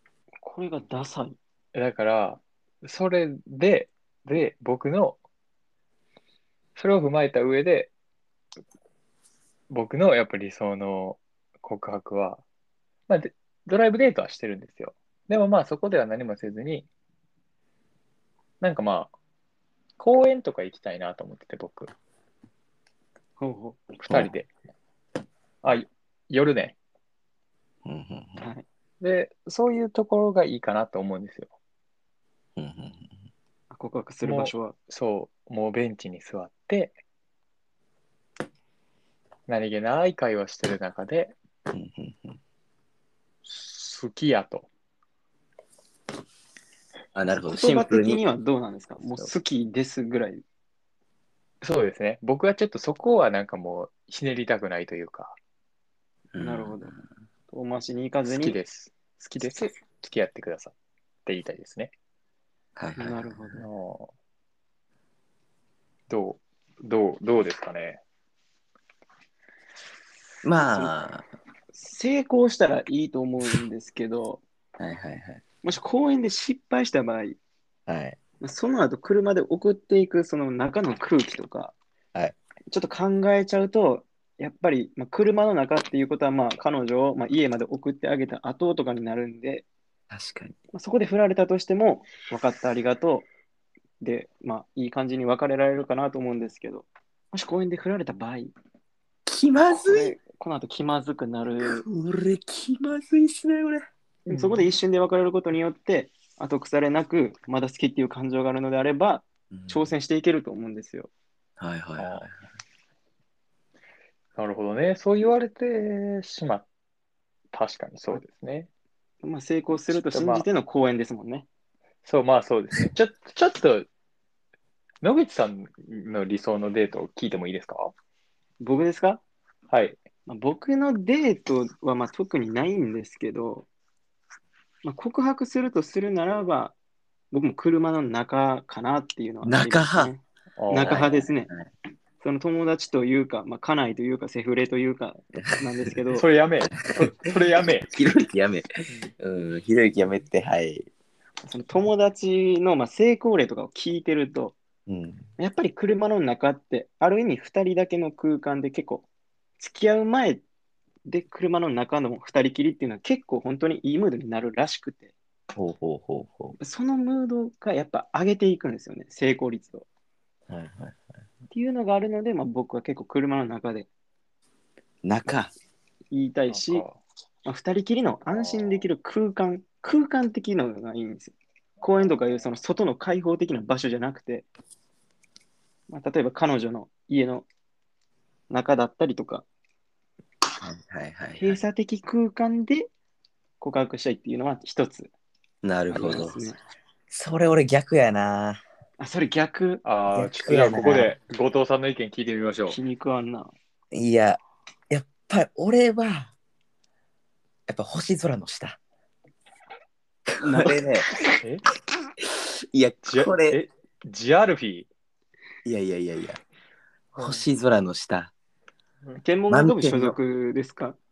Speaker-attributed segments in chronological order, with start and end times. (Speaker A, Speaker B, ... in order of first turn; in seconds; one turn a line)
Speaker A: 0.4-1.4
Speaker B: 1.7-5.2
Speaker B: 6.8-7.9
Speaker B: 9.7-12.4
Speaker B: 13.1-16.9
Speaker B: 18.6-19.1
Speaker B: 20.0-21.9
Speaker A: 23.4-23.9
Speaker B: 24.0-24.5
Speaker C: 24.1-24.3
Speaker B: 25.6-26.8
Speaker C: 27.9-28.5
Speaker A: 28.4-28.6
Speaker B: 29.0-31.5
Speaker C: 32.6-33.1
Speaker A: 33.7-34.8
Speaker B: 34.2-36.9
Speaker B: 39.5-41.4
Speaker C: 41.7-42.4
Speaker B: 43.4-44.7
Speaker C: 47.1-48.2
Speaker A: 47.5-50.4
Speaker C: 49.0-49.3
Speaker B: 51.6-55.4
Speaker C: 56.3-56.9
Speaker A: 56.4-56.9
Speaker A: 57.5-58.6
Speaker B: 58.2-60.7
Speaker B: 61.2-61.9
Speaker C: 62.8-63.6
Speaker A: 63.0-63.6
Speaker B: 63.6-64.1
Speaker B: 66.1-68.0
Speaker C: 70.4-71.2
Speaker A: 70.6-70.9
Speaker A: 71.7-74.4
Speaker C: 74.8-75.4
Speaker A: 75.6-77.4
Speaker C: 77.9-78.2
Speaker A: 78.4-81.8
Speaker A: 82.7-89.7
Speaker C: 90.1-90.5
Speaker A: 90.7-93.3
Speaker A: 94.0-98.5
Speaker C: 99.2-100.2
Speaker A: 99.7-101.8
Speaker C: 101.6-103.8
Speaker A: 104.3-111.1
Speaker B: 104.3-104.7
Speaker C: 109.5-109.9
Speaker C: 111.6-112.3
Speaker B: 112.0-112.3
Speaker B: 114.3-116.7
Speaker B: 117.5-118.7
Speaker A: 119.2-121.5
Speaker B: 120.1-120.5
Speaker B: 122.0-123.9
Speaker B: 125.0-127.9
Speaker A: 128.6-129.2
Speaker B: 129.7-130.0
Speaker A: 130.3-133.7
Speaker A: 134.8-136.8
Speaker A: 137.3-141.5
Speaker C: 139.4-140.1
Speaker B: 140.6-141.0
Speaker C: 140.8-141.7
Speaker A: 142.2-146.2
Speaker B: 146.1-147.9
Speaker C: 147.9-148.6
Speaker C: 149.2-150.9
Speaker A: 151.4-154.6
Speaker C: 154.9-155.3
Speaker A: 155.4-159.1
Speaker A: 159.6-160.4
Speaker A: 161.1-165.1
Speaker C: 165.5-166.6
Speaker A: 166.6-169.8
Speaker C: 170.5-171.0
Speaker A: 171.5-173.9
Speaker C: 175.0-175.5
Speaker A: 176.1-176.8
Speaker B: 176.5-177.0
Speaker A: 177.4-184.4
Speaker B: 178.3-178.9
Speaker B: 181.9-182.2
Speaker A: 185.9-187.5
Speaker A: 188.5-189.4
Speaker C: 190.6-191.6
Speaker A: 191.4-192.9
Speaker A: 193.6-195.1
Speaker C: 195.6-196.4
Speaker A: 195.9-196.6
Speaker C: 197.1-198.6
Speaker A: 199.0-199.8
Speaker B: 199.8-202.8
Speaker C: 200.1-201.1
Speaker A: 202.7-203.5
Speaker C: 203.9-206.3
Speaker C: 207.7-208.8
Speaker C: 210.4-211.1
Speaker B: 211.4-211.6
Speaker C: 212.7-213.6
Speaker B: 213.1-214.9
Speaker C: 215.6-216.4
Speaker B: 217.1-217.4
Speaker C: 217.2-218.3
Speaker A: 219.2-221.0
Speaker C: 219.5-220.2